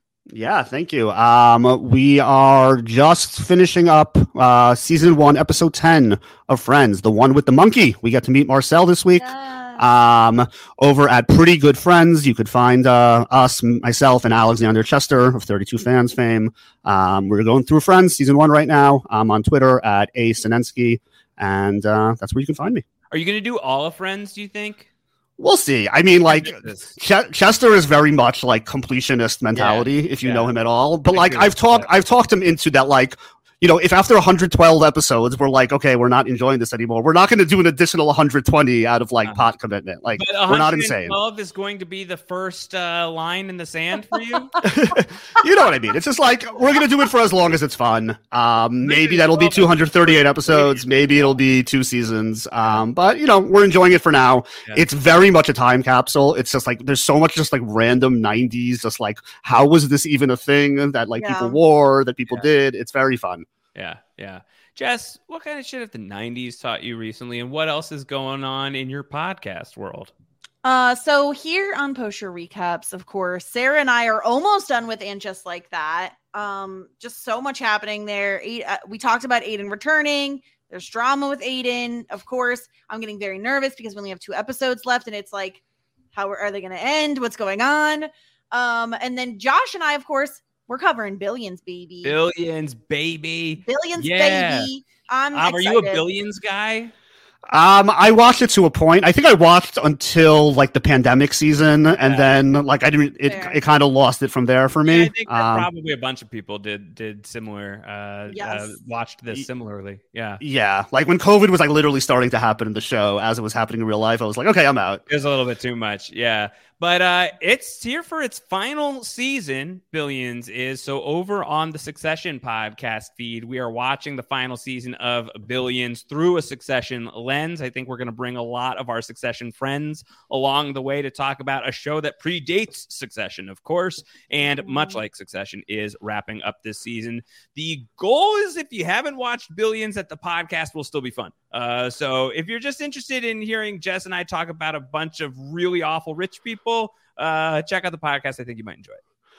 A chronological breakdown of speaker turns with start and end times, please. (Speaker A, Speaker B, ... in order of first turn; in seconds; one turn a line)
Speaker A: 0.3-22.8
Speaker B: 9.2-9.8
Speaker C: 23.1-24.9
Speaker A: 25.4-41.1
Speaker C: 26.3-26.9
Speaker C: 29.5-30.5
Speaker C: 31.1-31.9
Speaker C: 39.2-39.5
Speaker C: 40.1-44.7
Speaker A: 44.6-63.5
Speaker C: 48.8-50.9
Speaker B: 61.2-61.6
Speaker C: 63.7-70.1
Speaker B: 70.6-92.2
Speaker C: 92.0-94.7
Speaker B: 93.6-96.0
Speaker C: 95.3-96.9
Speaker A: 97.5-105.7
Speaker C: 102.0-102.4
Speaker B: 103.2-103.6
Speaker C: 104.8-110.4
Speaker B: 108.3-108.8
Speaker A: 110.4-115.0
Speaker C: 115.1-149.0